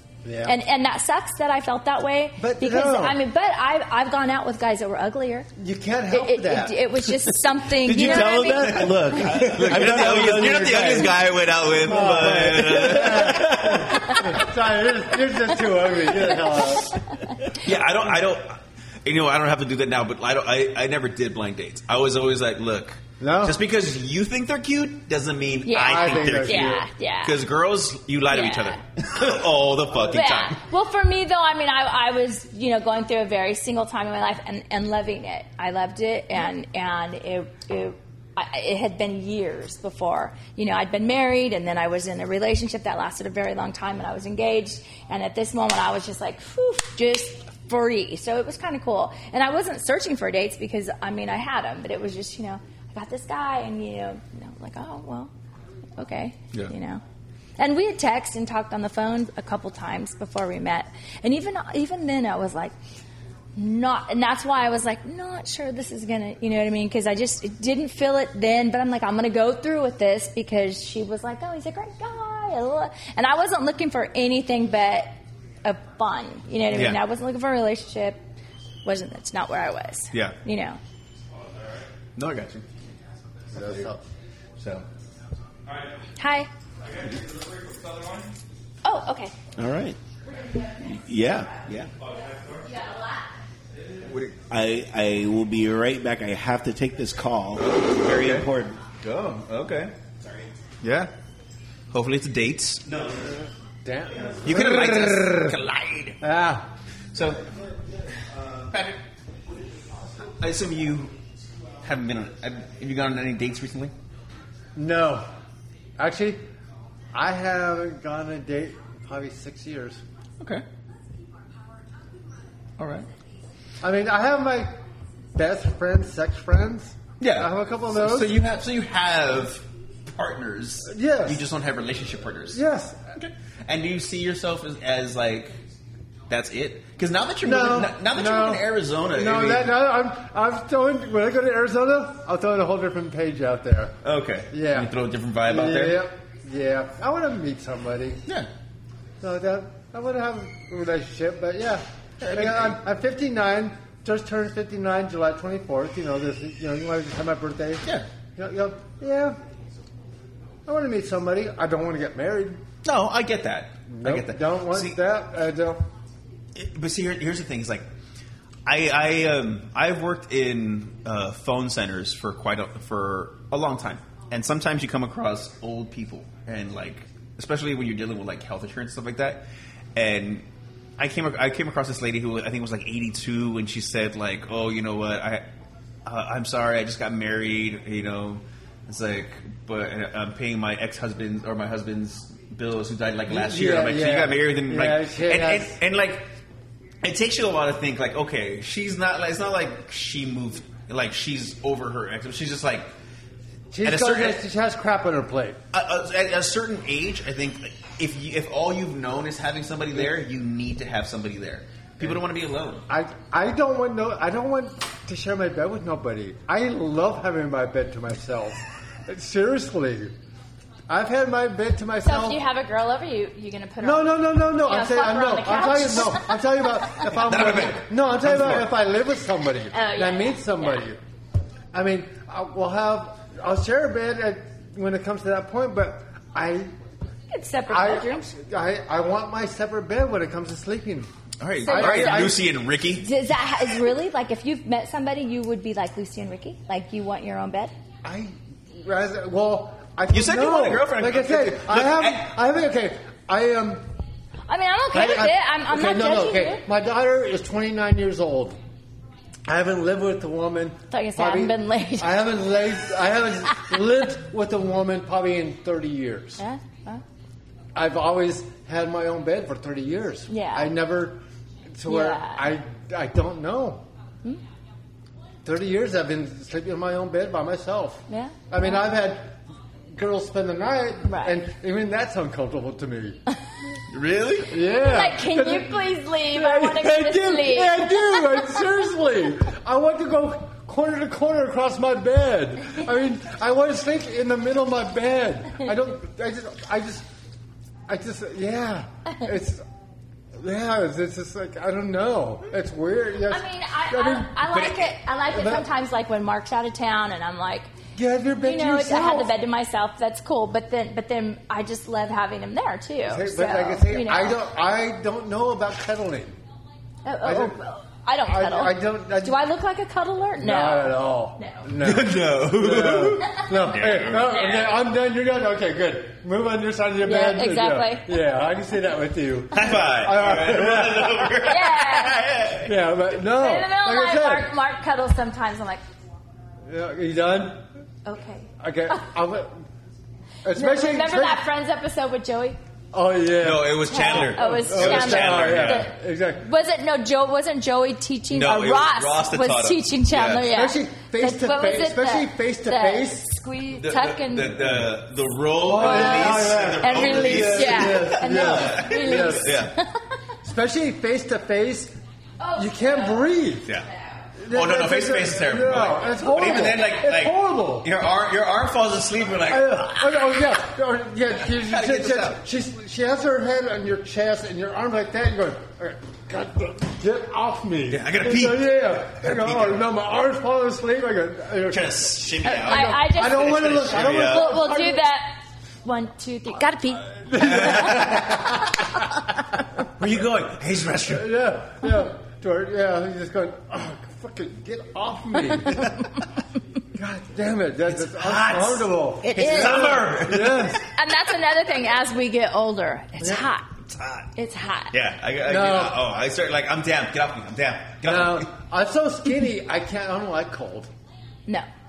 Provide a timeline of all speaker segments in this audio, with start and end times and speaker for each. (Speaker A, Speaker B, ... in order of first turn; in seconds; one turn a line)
Speaker A: 0.2-0.6
Speaker B: 0.5-5.5
Speaker A: 2.4-3.2
Speaker A: 5.6-6.8
Speaker B: 6.1-9.1
Speaker C: 7.7-11.2
Speaker D: 8.2-14.4
Speaker A: 11.8-17.0
Speaker C: 12.1-13.9
Speaker D: 17.5-30.6
Speaker A: 23.2-23.6
Speaker B: 25.7-27.4
Speaker A: 25.8-26.9
Speaker B: 28.3-28.8
Speaker B: 30.1-55.3
Speaker B: 56.0-57.0
Speaker B: 57.6-62.7
Speaker B: 63.6-78.2
Speaker D: 76.7-77.0
Speaker B: 78.8-80.8
Speaker D: 82.2-82.7
Speaker A: 83.5-84.0
Speaker D: 84.6-84.8
Speaker B: 86.2-86.5
Speaker B: 88.8-89.3
Speaker C: 89.6-90.0
Speaker C: 90.8-91.9
Speaker B: 92.7-93.1
Speaker D: 94.1-94.4
Speaker C: 94.5-98.8
Speaker D: 97.6-98.5
Speaker D: 99.0-99.9
Speaker D: 100.8-101.1
Speaker D: 101.9-102.9
Speaker A: 103.8-105.5
Speaker D: 104.4-106.2
Speaker A: 106.2-106.7
Speaker D: 107.1-107.5
Speaker D: 108.7-109.0
Speaker D: 110.3-111.1
Speaker D: 111.8-113.9
Speaker A: 114.8-115.3
Speaker A: 116.0-116.4
Speaker A: 117.1-120.0
Speaker D: 122.8-123.1
Speaker A: 123.8-124.7
Speaker A: 125.3-128.4
Speaker D: 127.2-132.6
Speaker A: 130.8-131.4
Speaker A: 132.5-133.0
Speaker D: 133.2-135.6
Speaker D: 136.3-139.7
Speaker A: 137.4-143.9
Speaker D: 144.0-146.0
Speaker A: 144.5-144.9
Speaker A: 145.5-148.2
Speaker A: 149.2-157.8
Speaker D: 152.2-152.8
Speaker A: 158.4-159.4
Speaker A: 160.7-162.6
Speaker D: 162.8-165.0
Speaker A: 163.9-165.8
Speaker D: 166.6-167.9
Speaker D: 168.7-180.5
Speaker D: 181.0-185.4
Speaker D: 186.1-196.3
Speaker A: 193.3-195.7
Speaker D: 197.0-202.9
Speaker A: 203.7-205.6
Speaker D: 203.8-204.4
Speaker D: 205.7-212.8
Speaker A: 212.9-220.1
Speaker A: 220.9-222.4
Speaker B: 222.0-226.4
Speaker A: 223.8-231.0
Speaker D: 227.0-228.7
Speaker B: 229.7-230.8
Speaker A: 231.7-236.7
Speaker B: 237.3-238.3
Speaker A: 237.7-241.1
Speaker D: 241.4-243.1
Speaker B: 241.6-247.7
Speaker A: 241.7-242.4
Speaker A: 248.0-253.8
Speaker D: 250.1-252.2
Speaker B: 254.5-256.6
Speaker A: 254.9-258.6
Speaker A: 259.5-266.4
Speaker B: 260.9-262.2
Speaker B: 266.4-267.0
Speaker A: 267.8-271.2
Speaker B: 270.3-270.7
Speaker A: 271.7-273.9
Speaker B: 271.9-272.5
Speaker A: 275.4-279.4
Speaker B: 278.1-278.8
Speaker A: 279.9-283.2
Speaker B: 281.1-281.4
Speaker D: 283.9-284.6
Speaker A: 284.5-297.1
Speaker B: 284.7-288.5
Speaker A: 297.9-299.6
Speaker A: 300.4-304.6
Speaker B: 303.3-307.7
Speaker A: 305.3-305.6
Speaker A: 307.9-309.3
Speaker B: 308.4-314.4
Speaker A: 313.1-316.4
Speaker B: 317.1-321.6
Speaker A: 317.2-317.6
Speaker A: 318.3-319.4
Speaker A: 320.4-331.3
Speaker D: 321.8-324.4
Speaker B: 324.3-324.8
Speaker B: 327.0-328.2
Speaker D: 329.5-332.8
Speaker B: 331.4-332.2
Speaker A: 332.6-334.5
Speaker B: 333.2-335.8
Speaker A: 336.7-337.6
Speaker B: 338.1-339.0
Speaker A: 338.6-339.6
Speaker A: 340.4-341.4
Speaker B: 340.6-342.6
Speaker A: 342.9-346.5
Speaker D: 343.4-345.9
Speaker B: 343.9-354.6
Speaker D: 348.3-350.5
Speaker A: 350.5-353.2
Speaker D: 353.7-359.8
Speaker A: 355.6-359.6
Speaker B: 355.7-360.0
Speaker A: 360.4-361.9
Speaker B: 362.4-363.4
Speaker A: 362.6-363.7
Speaker B: 363.9-364.2
Speaker A: 364.4-367.9
Speaker D: 364.5-370.3
Speaker A: 369.5-385.0
Speaker D: 371.5-372.4
Speaker D: 377.9-379.8
Speaker D: 381.6-384.6
Speaker B: 382.4-388.1
Speaker A: 387.3-388.6
Speaker D: 387.4-388.5
Speaker D: 390.0-391.3
Speaker A: 391.1-396.0
Speaker A: 396.9-400.8
Speaker D: 397.9-400.8
Speaker B: 399.2-400.0
Speaker B: 400.8-404.9
Speaker D: 404.0-404.2
Speaker D: 404.9-408.5
Speaker A: 405.5-406.0
Speaker A: 408.0-410.9